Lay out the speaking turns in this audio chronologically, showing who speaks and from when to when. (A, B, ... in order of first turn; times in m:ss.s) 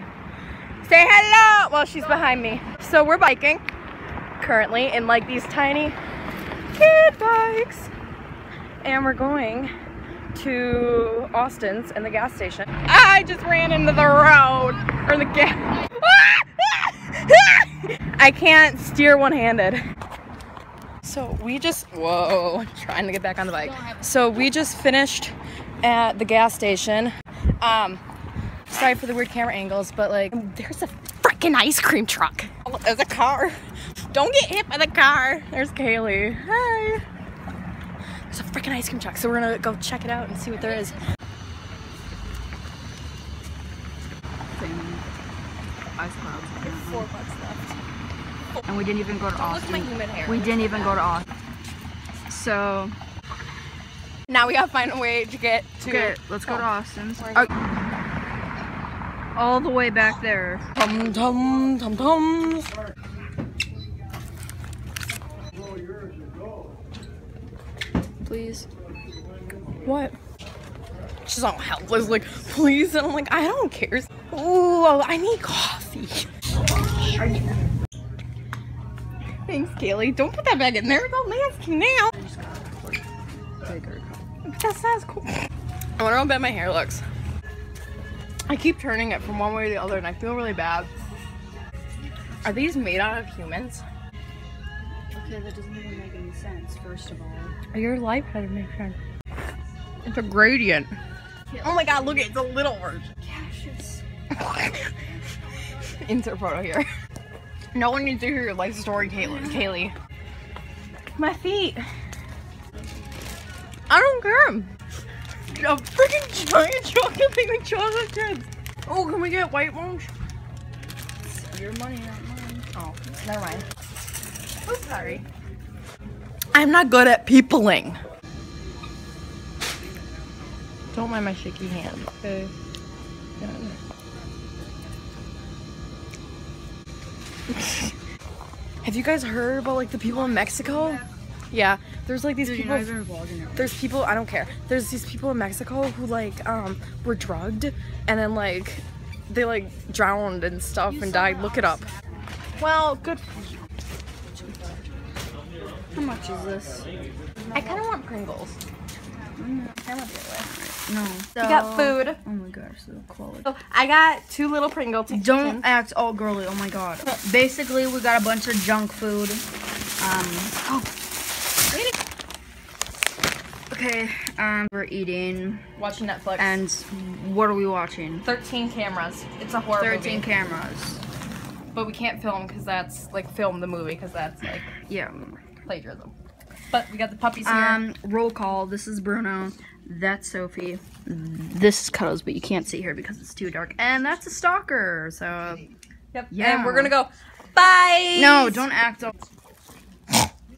0:00.8-0:03.6 A
0:04.4-0:05.9 A
0:06.7-0:07.9 A
0:08.8-0:09.7 A
0:10.3-0:19.8 A
0:21.0-0:28.0 A
0:28.7-0:33.6 A
0:34.1-0:37.0 A
0:38.3-0:41.0 A
0:44.5-0:45.1 B
0:45.9-0:47.1 B
0:46.6-0:47.7 A
0:48.7-0:51.2 B
0:49.4-0:51.1 A
0:52.3-0:52.9 B
0:54.3-0:57.5 A
0:55.8-0:57.5 B
0:59.3-1:00.6 B
1:00.8-1:02.7 A
1:08.2-1:08.7 B
1:09.8-1:10.1 A
1:11.2-1:17.4 A
1:17.2-1:17.5 B
1:19.5-1:22.1 A
1:22.1-1:23.0 B
1:23.6-1:24.2 B
1:24.4-1:25.4 A
1:26.0-1:27.0 A
1:28.5-1:30.9 A
1:32.4-1:33.8 A
1:35.1-1:37.5 B
1:37.7-1:39.0 A
1:40.0-1:40.9 A
1:41.5-1:42.4 B
1:41.6-1:43.0 A
1:43.2-1:44.0 B
1:44.3-1:44.9 A
1:46.0-1:46.9 A
1:47.7-1:49.9 A
1:49.2-1:49.7 B
1:51.2-1:51.8 A
1:53.9-1:54.7 A
1:55.5-2:00.1 A
2:01.3-2:02.7 B
2:02.7-2:03.6 A
2:04.6-2:05.2 A
2:06.5-2:08.0 A
2:10.9-2:12.5 A
2:13.4-2:13.8 A
2:17.5-2:17.9 A
2:18.8-2:22.9 A
2:20.1-2:21.1 B
2:22.4-2:23.9 B
2:23.6-2:31.9 A
2:31.0-2:31.7 B
2:32.6-2:33.4 A
2:35.9-2:36.9 B
2:37.5-2:38.6 A
2:39.4-2:39.7 B
2:39.8-2:40.5 A
2:40.5-2:43.4 B
2:41.4-2:42.2 A
2:43.4-2:45.6 A
2:45.1-2:49.4 B
2:50.0-2:50.8 B
2:51.7-2:52.0 A
2:53.7-2:55.6 B
2:55.8-2:56.6 A
2:56.4-2:58.2 B
2:58.2-3:00.3 A
2:59.8-3:01.0 B
3:01.7-3:04.7 A
3:04.9-3:05.4 B
3:05.6-3:06.1 A
3:06.7-3:07.8 A
3:07.4-3:15.6 B
3:16.1-3:18.6 A
3:16.3-3:16.9 B
3:18.2-3:19.1 B